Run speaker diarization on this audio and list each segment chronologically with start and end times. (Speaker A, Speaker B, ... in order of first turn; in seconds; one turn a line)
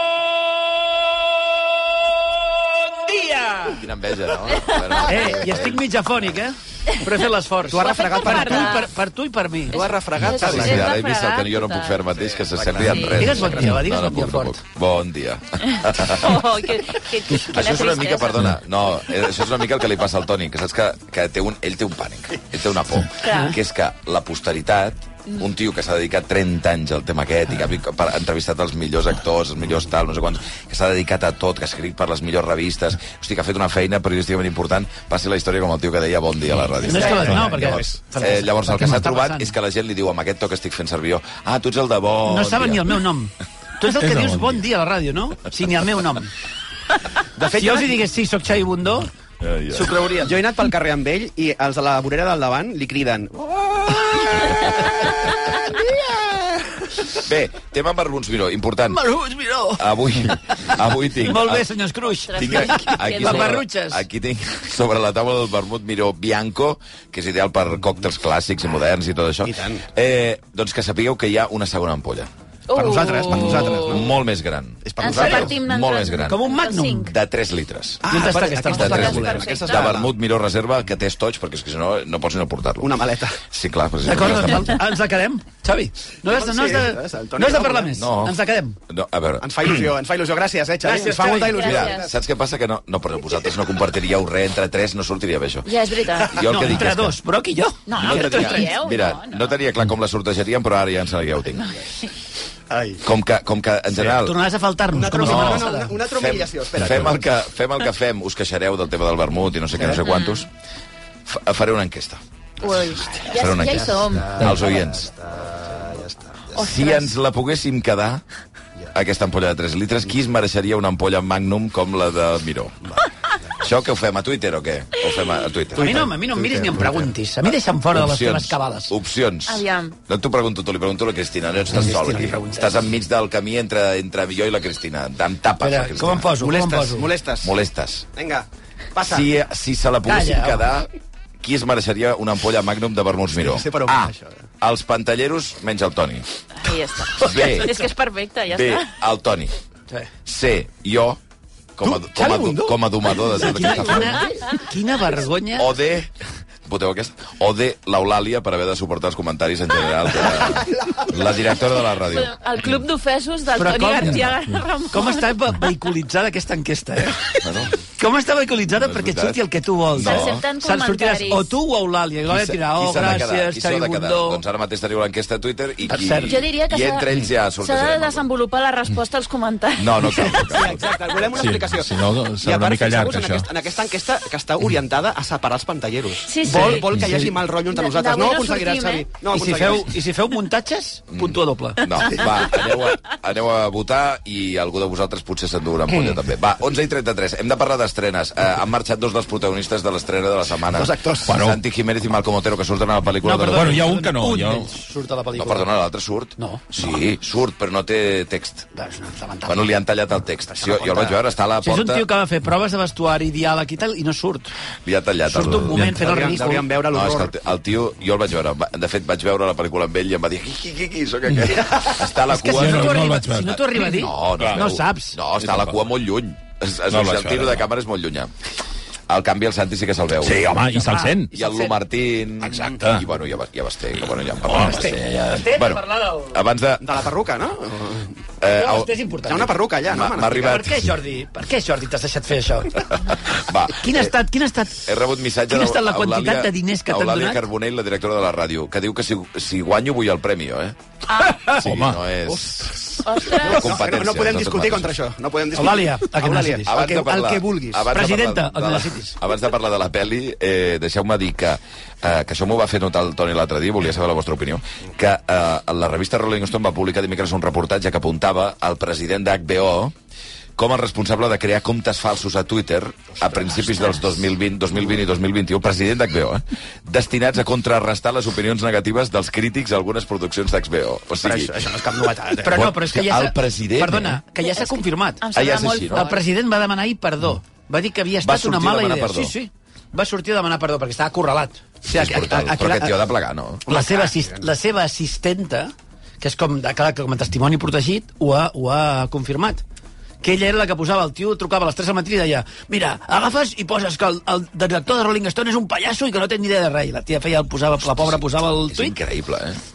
Speaker A: 2.9-3.8
Speaker B: 3.7-5.8
Speaker C: 4.6-4.9
Speaker A: 5.0-10.8
Speaker D: 7.7-8.8
Speaker C: 7.8-8.9
Speaker D: 9.7-10.9
Speaker C: 9.7-12.0
Speaker B: 10.4-43.0
Speaker D: 12.2-13.7
Speaker C: 12.8-13.4
Speaker A: 13.2-14.6
Speaker C: 15.7-18.4
Speaker C: 23.2-23.6
Speaker A: 23.3-23.5
Speaker A: 36.8-39.5
Speaker E: 37.3-37.8
Speaker A: 42.3-46.3
Speaker E: 43.9-44.6
Speaker D: 47.4-47.9
Speaker A: 47.5-49.1
Speaker B: 49.4-50.1
Speaker A: 49.7-50.3
Speaker D: 50.2-55.1
Speaker B: 57.2-59.0
Speaker A: 58.9-59.9
Speaker B: 59.8-61.7
Speaker A: 61.2-64.0
Speaker C: 62.2-63.6
Speaker B: 62.3-72.3
Speaker D: 69.4-69.8
Speaker C: 72.7-74.1
Speaker D: 72.8-74.1
Speaker B: 73.3-76.4
Speaker D: 74.8-75.5
Speaker C: 75.0-77.1
Speaker A: 75.2-75.5
Speaker A: 76.3-77.1
Speaker B: 77.1-78.1
Speaker D: 78.0-80.1
Speaker A: 78.1-79.3
Speaker C: 78.7-80.0
Speaker B: 78.7-84.8
Speaker D: 82.8-83.4
Speaker A: 84.0-88.8
Speaker D: 86.2-88.0
Speaker B: 87.9-88.4
Speaker B: 88.9-89.8
Speaker D: 89.4-92.1
Speaker A: 90.8-91.6
Speaker C: 91.3-92.0
Speaker B: 91.5-97.2
Speaker C: 95.7-96.4
Speaker A: 96.4-98.7
Speaker C: 97.9-99.5
Speaker B: 97.9-101.8
Speaker C: 101.7-102.1
Speaker D: 102.7-103.0
Speaker B: 103.0-104.4
Speaker A: 104.0-105.9
Speaker D: 104.9-107.2
Speaker B: 105.2-110.5
Speaker C: 110.0-110.5
Speaker B: 111.3-112.2
Speaker C: 112.6-114.5
Speaker B: 113.3-115.1
Speaker D: 114.1-116.5
Speaker B: 116.5-118.2
Speaker C: 116.6-117.1
Speaker B: 118.9-123.0
Speaker B: 123.6-126.1
Speaker D: 125.8-127.1
Speaker A: 125.8-128.9
Speaker B: 127.5-136.3
Speaker C: 129.5-129.9
Speaker A: 131.7-132.8
Speaker A: 135.6-137.1
Speaker D: 136.4-137.6
Speaker B: 137.4-138.1
Speaker D: 138.2-139.3
Speaker B: 139.0-140.9
Speaker A: 140.1-140.7
Speaker B: 141.4-146.3
Speaker D: 143.4-144.4
Speaker C: 146.6-148.9
Speaker B: 147.2-147.9
Speaker B: 148.5-149.5
Speaker B: 150.2-151.2
Speaker B: 151.8-154.3
Speaker D: 151.8-153.9
Speaker A: 153.4-155.7
Speaker B: 155.6-156.1
Speaker B: 156.7-162.8
Speaker C: 162.1-165.5
Speaker A: 163.6-164.3
Speaker B: 164.0-164.3
Speaker A: 164.9-167.4
Speaker B: 167.3-167.7
Speaker A: 168.0-174.4
Speaker B: 168.8-170.4
Speaker C: 170.0-171.5
Speaker B: 172.3-178.3
Speaker A: 175.9-176.4
Speaker C: 176.2-177.1
Speaker C: 177.6-180.4
Speaker B: 179.8-181.2
Speaker D: 180.5-190.0
Speaker E: 181.4-183.5
Speaker C: 186.2-189.1
Speaker A: 186.5-187.3
Speaker A: 189.3-191.8
Speaker B: 191.1-203.9
Speaker D: 200.7-201.4
Speaker E: 201.3-201.6
Speaker A: 203.2-205.7
Speaker E: 203.3-204.7
Speaker B: 205.4-208.7
Speaker A: 206.4-206.8
Speaker A: 208.7-209.7
Speaker B: 209.5-212.1
Speaker D: 210.6-211.2
Speaker A: 211.6-214.5
Speaker B: 214.8-215.9
Speaker A: 215.3-216.7
Speaker D: 215.9-217.3
Speaker B: 216.9-223.1
Speaker D: 221.6-221.9
Speaker A: 222.3-225.2
Speaker E: 222.5-224.7
Speaker B: 223.8-228.3
Speaker E: 225.4-225.8
Speaker E: 226.9-227.7
Speaker B: 229.1-230.6
Speaker E: 230.2-231.4
Speaker A: 230.7-231.7
Speaker B: 231.3-236.8
Speaker E: 232.4-233.1
Speaker E: 234.4-235.5
Speaker A: 234.5-236.4
Speaker D: 236.8-238.1
Speaker B: 238.4-238.9
Speaker A: 238.5-239.6
Speaker D: 239.3-240.6
Speaker B: 239.9-240.9
Speaker A: 240.2-243.0
Speaker B: 243.1-244.1
Speaker A: 243.7-244.8
Speaker B: 244.8-255.0
Speaker A: 245.5-247.4
Speaker E: 251.5-252.0
Speaker D: 252.3-257.9
Speaker C: 253.1-253.8
Speaker A: 255.5-256.8
Speaker B: 256.6-269.9
Speaker A: 257.9-259.1
Speaker B: 270.6-281.6
Speaker D: 281.2-282.7
Speaker A: 282.4-285.2
Speaker B: 282.5-284.2
Speaker C: 284.5-286.2
Speaker B: 285.3-286.1
Speaker A: 285.9-293.0
Speaker B: 288.2-289.3
Speaker B: 291.9-293.7
Speaker D: 293.7-294.4
Speaker A: 293.7-299.6
Speaker A: 300.2-309.0
Speaker B: 307.8-309.6